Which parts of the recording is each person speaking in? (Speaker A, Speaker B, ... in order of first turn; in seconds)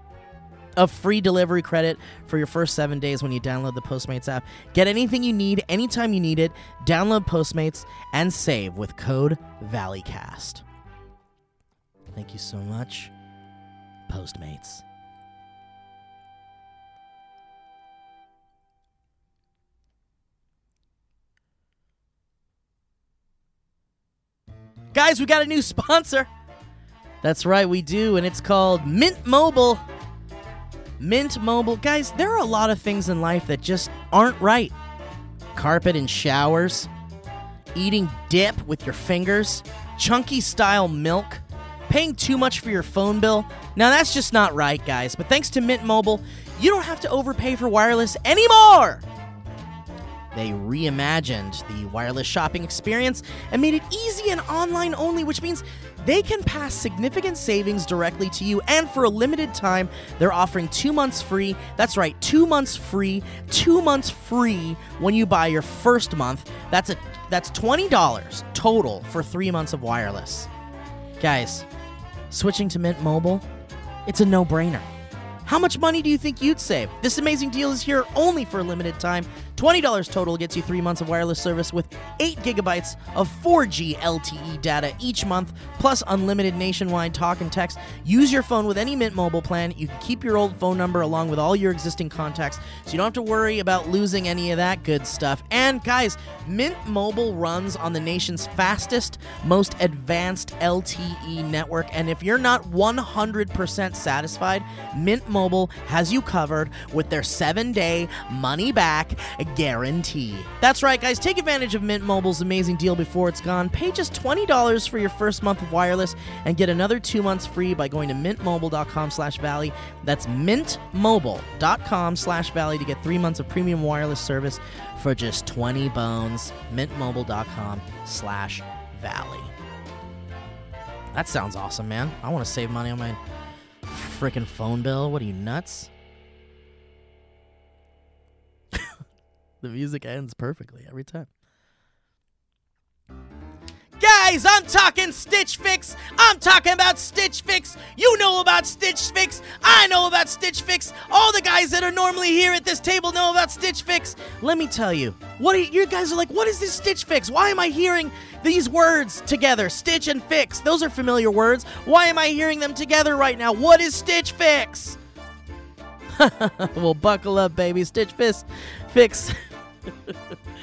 Speaker A: 0.8-10.6, 12.1-13.1, 14.1-14.8, 24.9-26.3, 27.2-29.8, 31.0-34.7, 35.5-36.9, 37.8-49.0, 50.3-70.5, 71.2-71.7, 72.3-73.4, 74.1-74.9, 75.5-129.5, 131.1-133.2, 133.9-135.9, 139.6-141.3, 144.0-165.0, 166.2-169.3